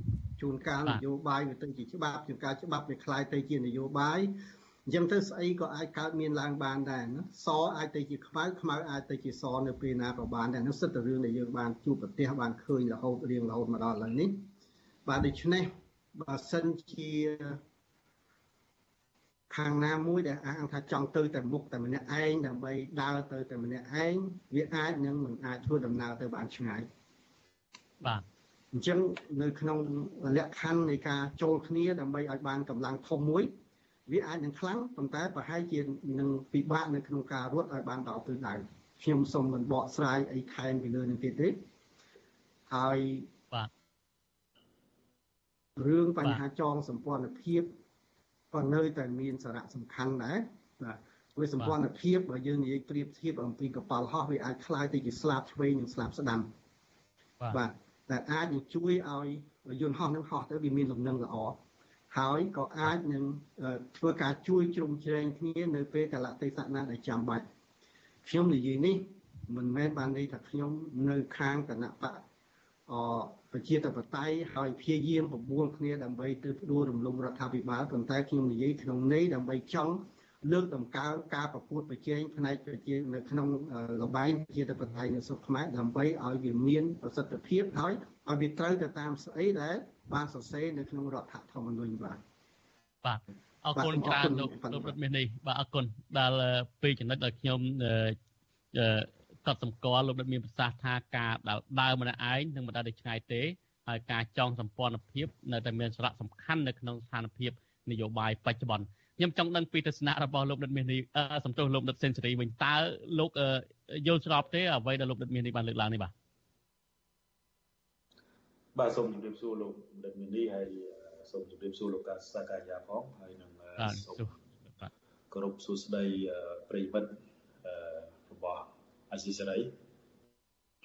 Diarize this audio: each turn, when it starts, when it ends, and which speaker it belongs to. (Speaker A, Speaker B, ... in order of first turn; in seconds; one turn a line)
Speaker A: 0.4-4.3
Speaker A: 4.9-14.4
Speaker A: 15.1-17.6
Speaker A: 19.5-26.9
Speaker A: 28.7-33.5
Speaker A: 34.1-41.6
Speaker A: 42.7-43.3
Speaker A: 45.8-47.7
Speaker A: 48.5-56.5
Speaker A: 57.5-61.6
Speaker A: 62.1-67.5
Speaker A: 68.2-72.2
Speaker A: 72.9-92.2
Speaker B: 93.0-98.2
Speaker A: 93.7-94.9
Speaker B: 98.7-116.1
Speaker C: 118.7-124.3
Speaker B: 123.8-124.9
Speaker C: 125.3-129.7